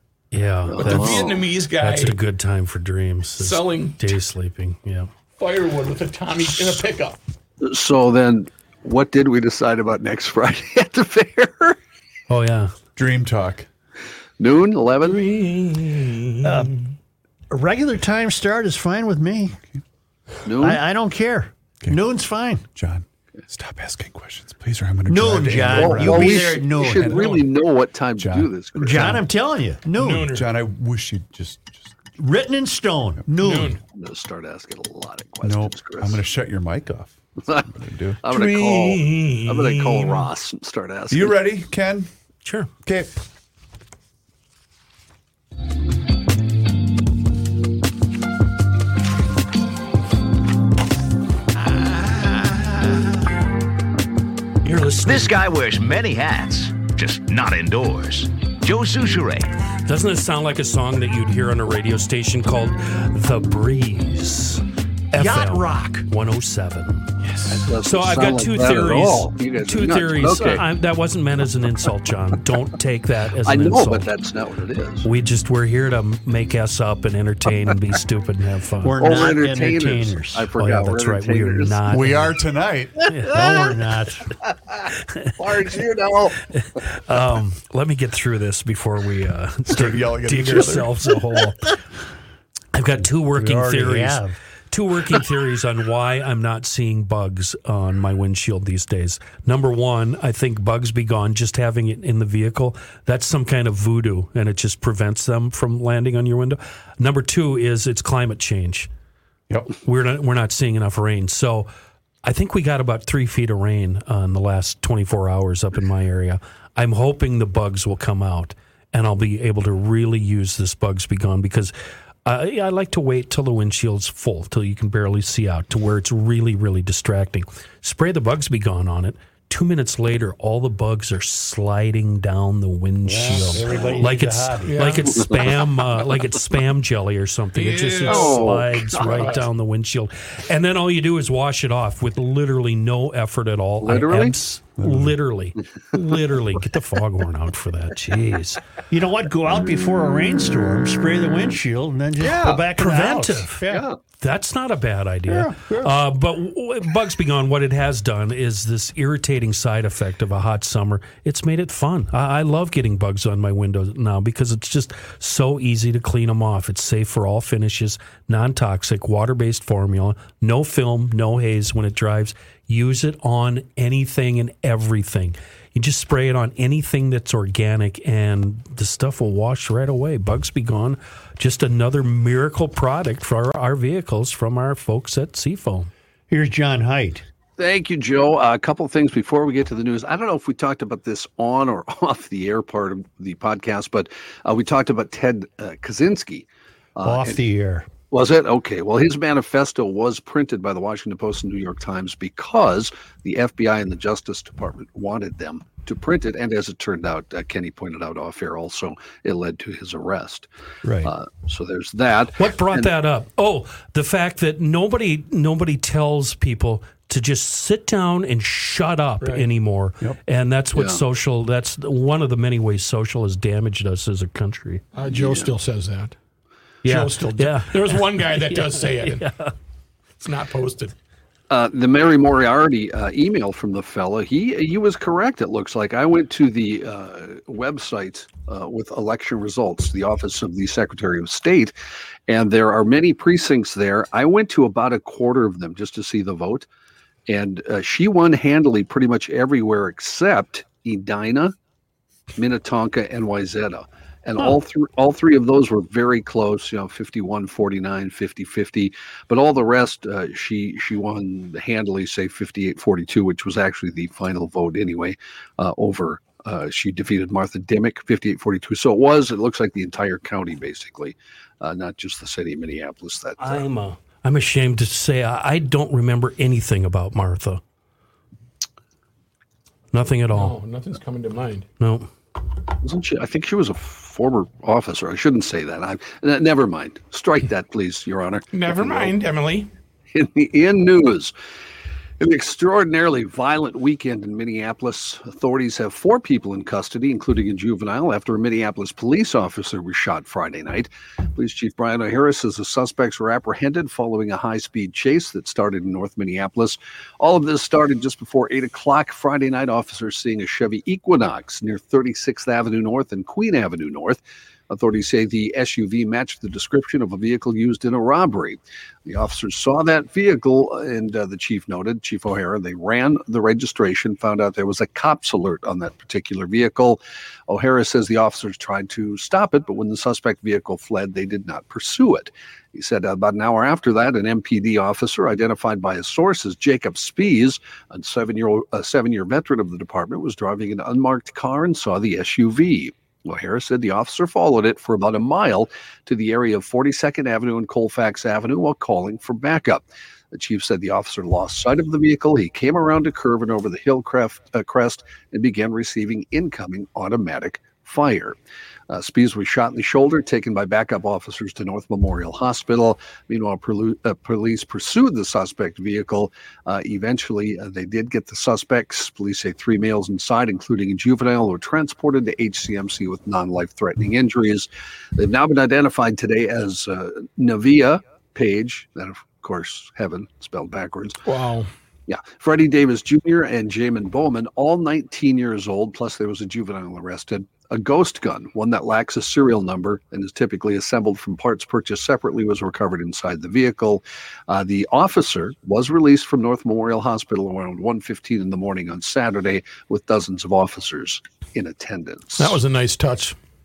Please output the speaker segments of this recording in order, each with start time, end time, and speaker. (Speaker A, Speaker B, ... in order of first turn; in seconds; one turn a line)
Speaker A: 0.3-5.1
Speaker B: 0.7-1.4
Speaker C: 0.8-2.2
Speaker C: 3.4-4.2
Speaker C: 5.4-7.2
Speaker B: 7.6-11.8
Speaker A: 12.3-12.7
Speaker D: 12.9-13.7
Speaker B: 14.4-15.2
Speaker C: 15.1-16.6
Speaker E: 16.4-16.8
Speaker E: 17.5-19.6
Speaker B: 20.4-20.8
Speaker E: 20.6-22.6
Speaker D: 22.7-27.5
Speaker E: 25.1-27.2
Speaker B: 25.6-29.2
Speaker D: 28.2-29.2
Speaker E: 28.8-30.3
Speaker C: 29.9-30.5
Speaker D: 30.3-31.9
Speaker E: 32.2-33.8
Speaker C: 33.4-33.8
Speaker B: 33.9-36.2
Speaker D: 35.4-38.2
Speaker B: 38.2-41.4
Speaker C: 38.5-39.4
Speaker D: 41.1-42.1
Speaker A: 42.4-42.7
Speaker D: 42.8-43.1
Speaker A: 54.6-55.4
Speaker F: 55.0-59.5
Speaker A: 59.8-67.2
Speaker E: 65.1-66.1
Speaker B: 67.5-70.7
Speaker A: 67.8-74.1
Speaker B: 73.5-75.1
Speaker A: 75.0-79.2
Speaker E: 78.8-80.5
Speaker B: 79.0-81.8
Speaker A: 80.6-82.3
Speaker D: 81.9-83.1
Speaker A: 83.1-83.4
Speaker E: 83.3-84.3
Speaker B: 85.4-86.4
Speaker A: 86.8-91.8
Speaker D: 89.7-90.9
Speaker A: 92.7-108.9
Speaker E: 93.3-94.4
Speaker A: 109.8-111.7
Speaker A: 112.2-121.7
Speaker A: 122.2-148.6
Speaker E: 133.0-134.9
Speaker C: 134.6-135.1
Speaker C: 137.5-139.5
Speaker B: 138.0-139.4
Speaker B: 143.8-144.3
Speaker D: 144.8-145.2
Speaker E: 148.9-153.8
Speaker B: 152.2-152.6
Speaker A: 152.8-153.6
Speaker B: 153.7-154.0
Speaker A: 154.2-185.9
Speaker E: 155.3-155.9
Speaker E: 186.3-187.2
Speaker B: 187.6-197.4
Speaker E: 197.0-197.9
Speaker B: 198.1-210.5
Speaker E: 210.8-211.1
Speaker B: 211.0-212.9
Speaker A: 212.4-224.8
Speaker C: 219.2-219.5
Speaker B: 220.7-221.0
Speaker C: 224.9-226.1
Speaker B: 225.1-225.5
Speaker C: 226.8-229.3
Speaker A: 226.8-229.5
Speaker C: 230.2-230.9
Speaker B: 231.5-241.7
Speaker B: 242.3-246.7
Speaker B: 247.3-251.5
Speaker B: 252.3-273.6
Speaker A: 273.4-277.6
Speaker A: 279.9-280.6
Speaker C: 280.3-281.7
Speaker A: 281.8-282.1
Speaker B: 282.8-289.1
Speaker C: 288.5-289.7
Speaker B: 290.1-291.3
Speaker B: 292.2-358.4
Speaker B: 358.9-381.2
Speaker C: 381.2-381.7
Speaker B: 382.1-402.6
Speaker C: 402.4-403.4